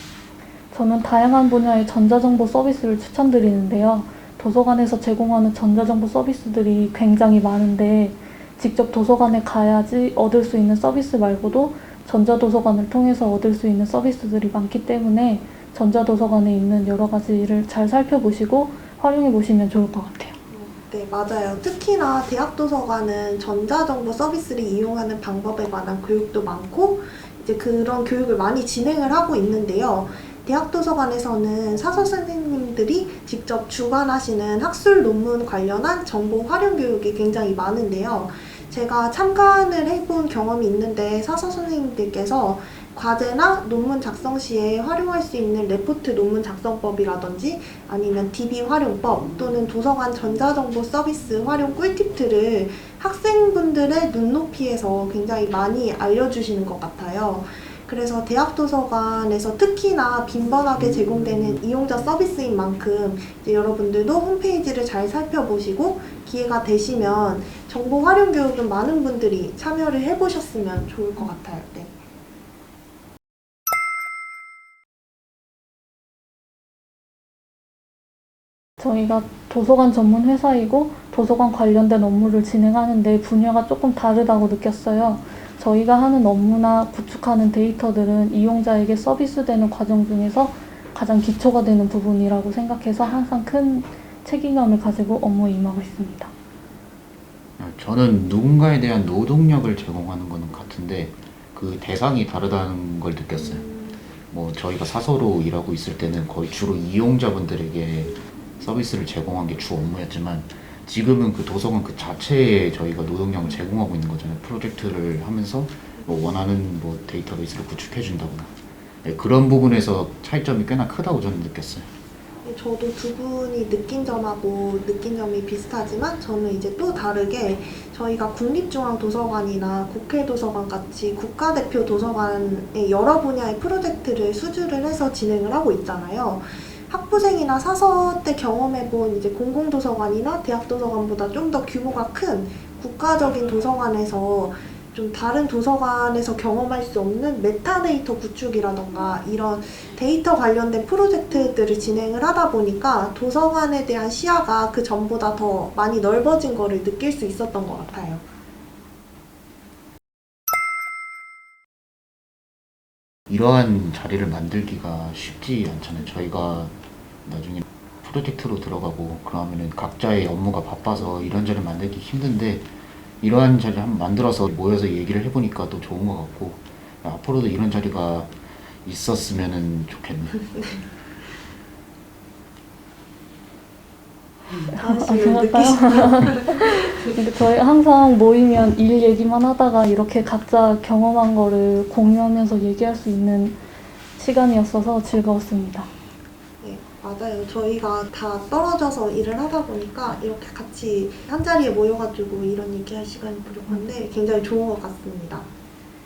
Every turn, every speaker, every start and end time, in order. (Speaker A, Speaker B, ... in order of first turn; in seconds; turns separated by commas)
Speaker A: 0.7-20.3, Speaker B: 20.5-72.0, Speaker A: 78.8-96.3, Speaker C: 97.6-103.7, Speaker C: 104.3-118.5, Speaker C: 119.0-121.9, Speaker B: 122.4-158.2, Speaker C: 163.3-166.7, Speaker C: 167.2-172.7, Speaker C: 173.2-178.3, Speaker C: 178.8-180.5, Speaker A: 184.7-193.6, Speaker B: 184.8-187.1, Speaker A: 194.2-195.9, Speaker B: 196.6-205.5